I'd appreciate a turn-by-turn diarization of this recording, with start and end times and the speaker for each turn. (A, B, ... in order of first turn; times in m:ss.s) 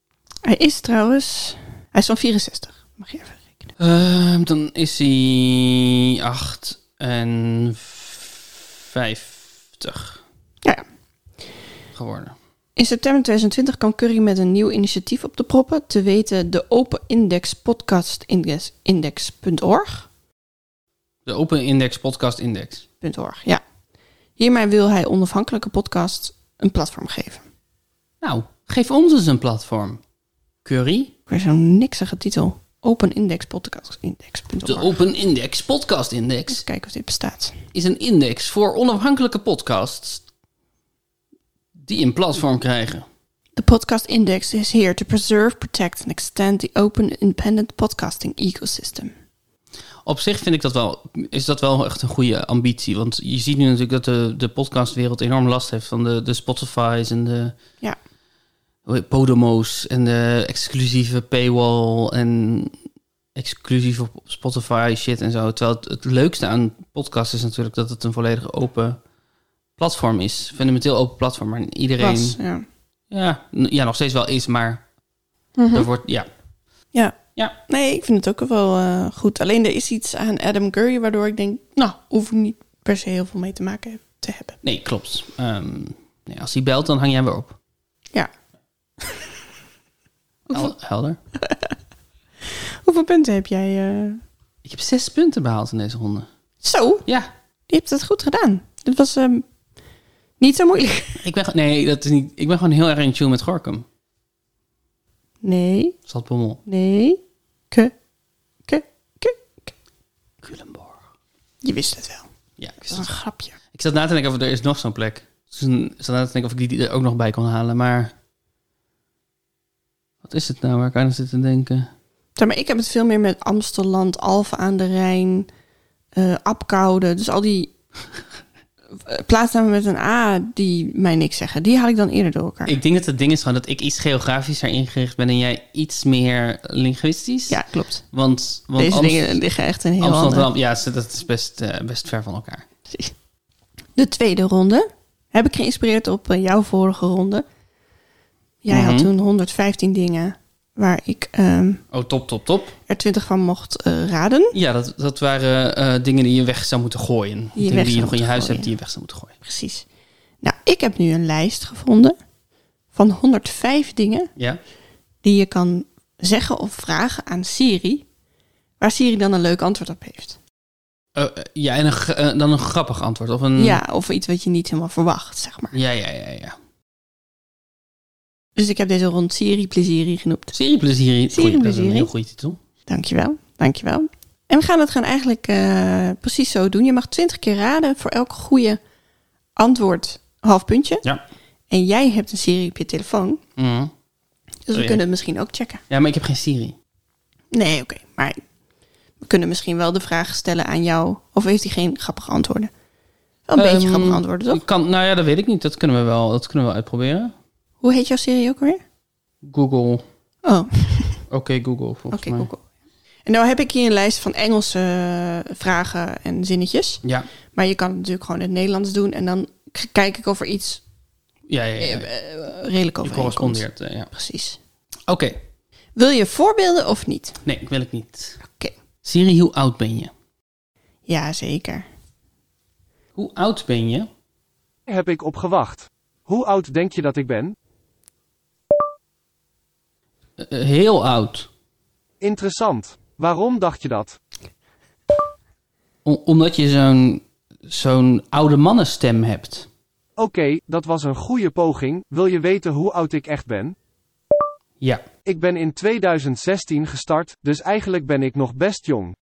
0:00.4-0:03.7 A
0:03.8-0:10.2 B
0:11.9-0:12.3 B
0:12.8-0:20.1 A
0:21.2-0:22.8 B
0:23.0-0:23.6 A
0:24.4-0:27.4 A
0:28.2-0:30.0 B
0:30.6-0:31.1 B
0:31.3-0:35.0 A
0:34.6-0:36.6 B
0:36.5-0:37.6 A
0:37.7-0:40.2 B
0:41.8-0:43.0 B
0:43.6-0:49.1 A
0:50.0-0:57.6 B
0:58.8-1:02.8 B
1:03.3-1:09.0 B
1:09.8-1:12.4 B
1:12.0-1:12.6 A
1:13.1-1:14.8 B
1:15.6-1:15.9 A
1:15.7-1:16.3 B
1:16.9-1:24.6 A
1:24.6-1:27.6 B
1:29.0-1:29.3 A
1:30.5-1:31.2 B
1:31.4-1:31.7 A
1:32.4-1:34.2 A
1:34.6-1:36.3 B
1:36.6-1:37.0 A
1:37.7-1:39.4 A
1:40.4-1:41.2 A
1:41.2-1:43.8 B
1:45.4-1:46.0 A
1:46.1-1:46.6 B
1:46.7-1:47.2 A
1:48.6-1:49.7 A
1:50.4-1:51.0 B
1:51.6-1:52.3 A
1:52.6-1:53.1 B
1:52.9-1:53.6 A
1:53.7-1:58.1 B
2:00.2-2:01.9 B
2:02.4-2:05.5 A
2:06.1-2:07.7 A
2:09.0-2:12.7 A
2:12.6-2:19.4 B
2:17.5-2:18.0 A
2:18.8-2:20.5 A
2:20.0-2:22.6 B
2:24.0-2:27.4 A
2:28.6-2:31.8 A
2:28.7-2:29.1 B
2:31.9-2:32.8 B
2:32.9-2:34.5 A
2:34.5-2:39.3 B
2:37.6-2:38.7 A
2:39.4-2:39.8 A
2:40.4-2:42.2 A
2:42.9-2:44.3 A
2:45.2-2:48.0 A
2:48.8-2:50.4 A
2:51.2-2:53.8 B
2:53.6-2:55.7 A
2:55.7-2:56.6 B
2:58.5-3:00.5 A
3:00.5-3:02.6 B
3:01.3-3:02.1 A
3:02.9-3:08.8 A
3:09.6-3:11.0 A
3:11.7-3:13.4 A
3:13.6-3:13.9 B
3:14.7-3:15.8 A
3:14.7-3:15.0 B
3:15.9-3:16.8 B
3:17.5-3:18.4 A
3:19.2-3:22.7 A
3:23.5-3:24.6 A
3:23.6-3:27.3 B
3:27.8-3:28.8 A
3:29.4-3:30.0 B
3:30.4-3:31.2 A
3:31.3-3:32.5 B
3:32.1-3:32.6 A
3:33.2-3:37.0 A
3:37.5-3:40.8 A
3:41.5-3:42.1 B
3:41.8-3:44.6 A
3:43.0-3:44.1 B
3:45.1-3:45.4 B
3:46.0-3:47.4 A
3:47.4-3:48.4 B
3:48.4-3:48.7 A
3:49.0-3:50.1 B
3:51.1-3:51.9 A
3:53.2-3:54.1 B
3:54.9-3:57.5 C
4:00.4-4:01.5 B
4:02.2-4:04.2 C
4:06.0-4:09.7 B
4:10.2-4:13.7 C
4:15.2-4:19.1 C